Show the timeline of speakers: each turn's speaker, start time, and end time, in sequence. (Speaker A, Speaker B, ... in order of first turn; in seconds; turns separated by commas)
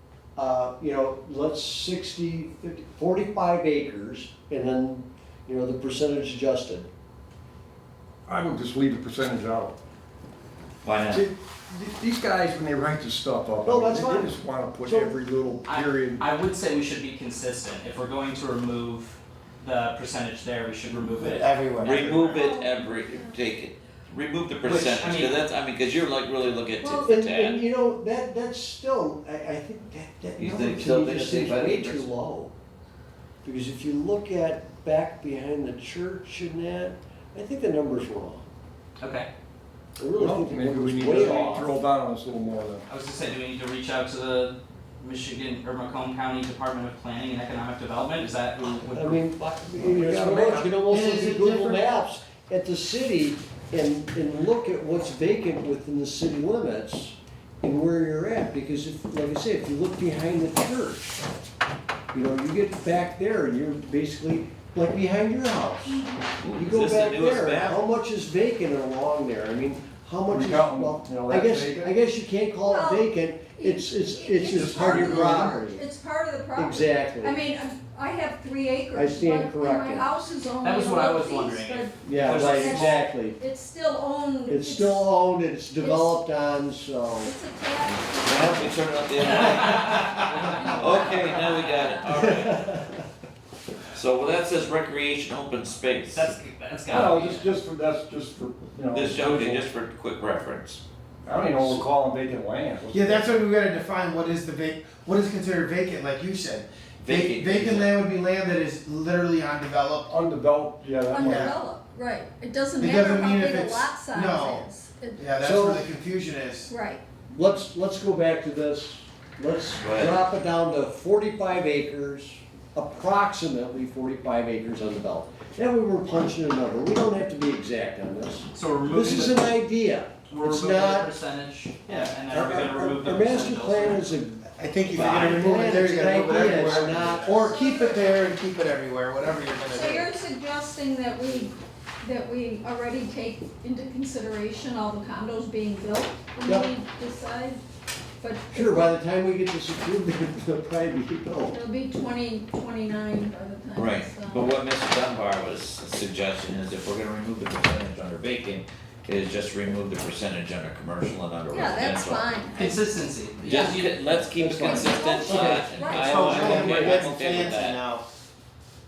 Speaker A: 0.3-6.9, Speaker B: 8.3-9.8, Speaker C: 10.8-11.3, Speaker B: 11.1-16.2, Speaker A: 13.6-15.2, Speaker D: 15.7-21.5, Speaker E: 21.3-22.4, Speaker C: 21.8-27.6, Speaker F: 22.3-23.4, Speaker D: 24.6-25.3, Speaker F: 26.8-27.1, Speaker A: 27.0-32.5, Speaker C: 30.4-32.1, Speaker A: 33.4-38.4, Speaker D: 39.0-39.3, Speaker A: 40.0-41.8, Speaker B: 40.2-42.8, Speaker D: 42.9-49.2, Speaker A: 48.9-61.2, Speaker B: 49.8-50.8, Speaker E: 50.9-51.8, Speaker A: 62.1-66.0, Speaker F: 65.9-66.2, Speaker C: 66.4-67.8, Speaker A: 66.5-75.8, Speaker B: 70.3-71.9, Speaker F: 72.5-85.2, Speaker B: 74.4-75.6, Speaker A: 76.5-77.4, Speaker A: 78.9-80.1, Speaker D: 80.6-82.9, Speaker A: 82.0-83.4, Speaker A: 84.5-87.3, Speaker F: 85.8-86.2, Speaker F: 87.2-89.9, Speaker C: 88.2-92.7, Speaker D: 89.2-90.8, Speaker F: 90.6-92.2, Speaker A: 92.1-93.0, Speaker C: 93.9-96.2, Speaker D: 96.1-97.5, Speaker B: 96.9-99.7, Speaker C: 98.9-100.8, Speaker B: 101.2-103.3, Speaker E: 102.9-110.1, Speaker C: 107.0-108.0, Speaker B: 110.1-111.5, Speaker F: 111.0-115.3, Speaker E: 111.2-111.5, Speaker E: 112.8-116.7, Speaker A: 115.3-115.9, Speaker F: 116.7-117.0, Speaker A: 117.3-131.1, Speaker C: 119.8-120.2, Speaker D: 128.5-129.5, Speaker D: 130.3-134.1, Speaker E: 131.9-132.1, Speaker A: 132.3-137.6, Speaker E: 134.4-140.1, Speaker D: 135.0-135.3, Speaker D: 136.7-137.3, Speaker F: 137.5-138.1, Speaker F: 139.7-147.6, Speaker A: 146.4-146.7, Speaker F: 148.2-148.9, Speaker A: 148.5-151.6, Speaker F: 151.5-154.5, Speaker C: 153.7-162.3, Speaker F: 161.5-162.8, Speaker D: 162.5-164.2, Speaker C: 163.4-167.8, Speaker A: 164.3-166.8, Speaker F: 164.6-166.7, Speaker E: 166.1-168.0